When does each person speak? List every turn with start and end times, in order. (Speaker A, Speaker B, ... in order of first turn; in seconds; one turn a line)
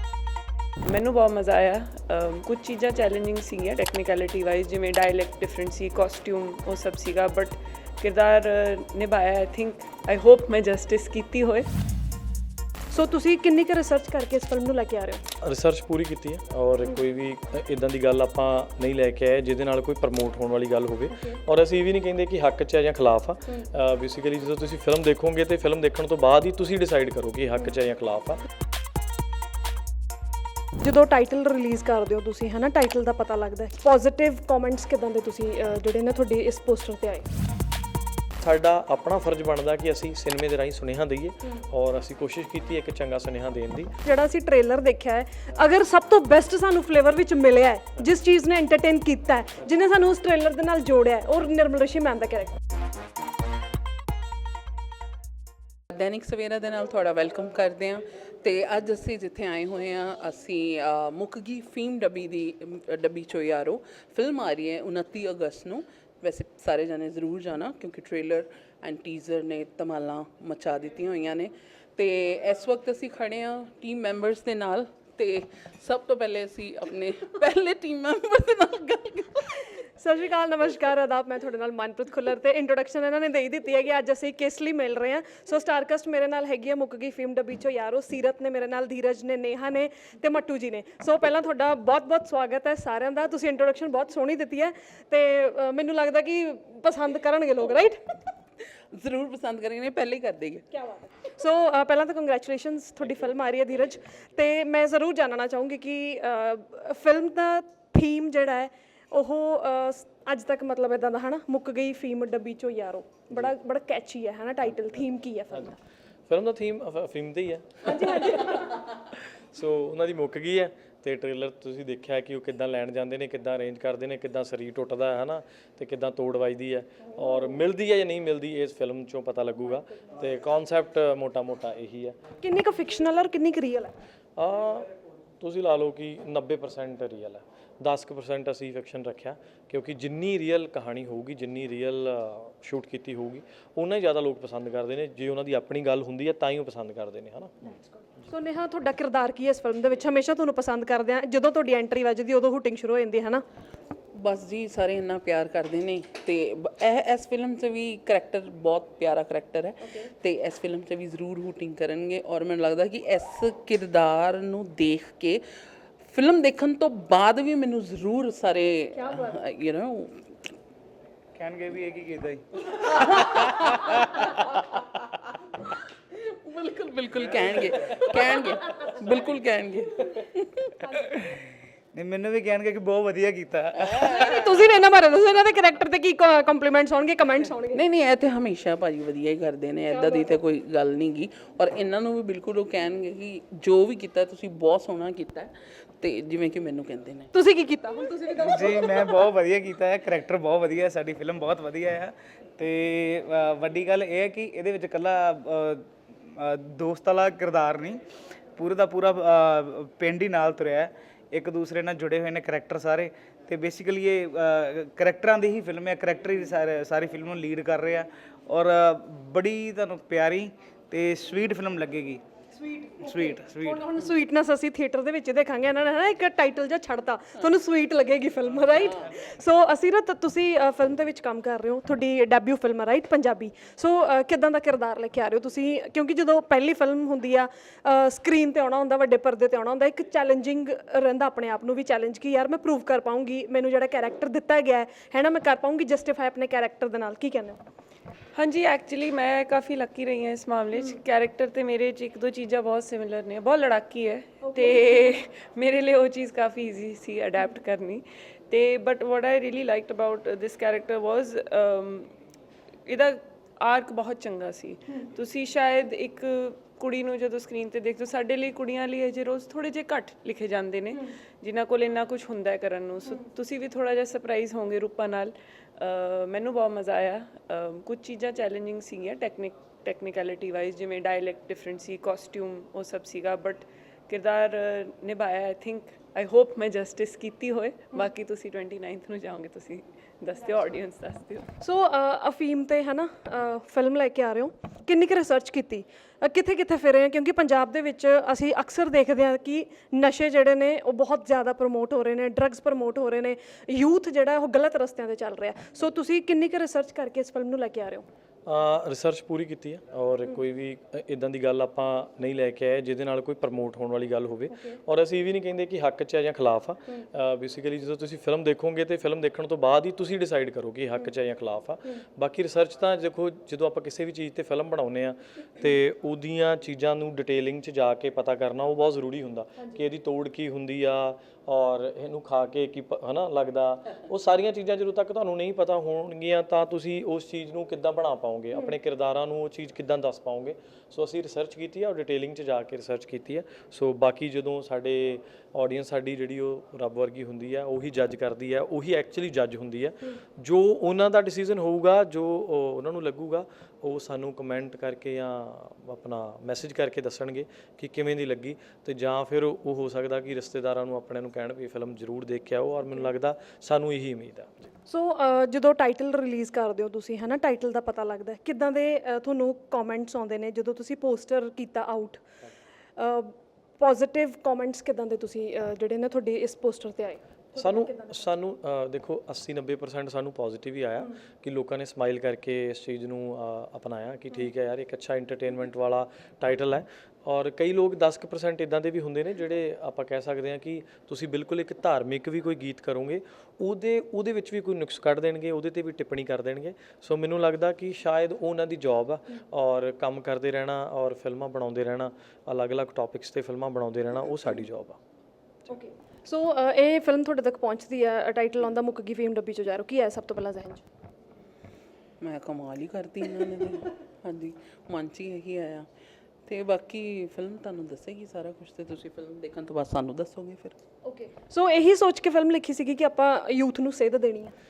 Speaker A: 0.8-11.7
Speaker B: 12.9-15.2
Speaker C: 15.4-28.4
Speaker B: 30.8-37.3
Speaker C: 38.4-43.9
Speaker B: 44.0-52.5
Speaker D: 55.9-79.7
Speaker B: 79.8-98.1
Speaker D: 98.9-100.7
Speaker B: 100.8-115.8
Speaker C: 116.3-118.8
Speaker B: 117.8-118.6
Speaker C: 119.4-132.2
Speaker B: 132.4-133.9
Speaker C: 134.4-134.9
Speaker C: 135.4-147.8
Speaker B: 148.2-153.4
Speaker D: 154.1-170.6
Speaker B: 168.9-169.4
Speaker E: 171.3-172.4
Speaker D: 173.1-174.8
Speaker D: 175.6-180.8
Speaker B: 180.8-181.2
Speaker E: 181.9-183.9
Speaker B: 183.9-187.8
Speaker D: 184.1-184.4
Speaker D: 187.7-197.3
Speaker B: 189.9-190.3
Speaker B: 197.3-199.1
Speaker E: 198.4-208.0
Speaker E: 208.6-222.2
Speaker B: 222.5-247.6
Speaker E: 223.0-223.8
Speaker A: 248.3-262.1
Speaker B: 254.4-254.9
Speaker A: 262.9-291.5
Speaker B: 291.6-308.1
Speaker C: 308.4-364.7
Speaker B: 364.9-372.2
Speaker B: 373.0-378.2
Speaker C: 377.6-405.0
Speaker B: 405.7-410.8
Speaker D: 412.2-415.9
Speaker D: 416.4-420.8
Speaker B: 421.0-424.5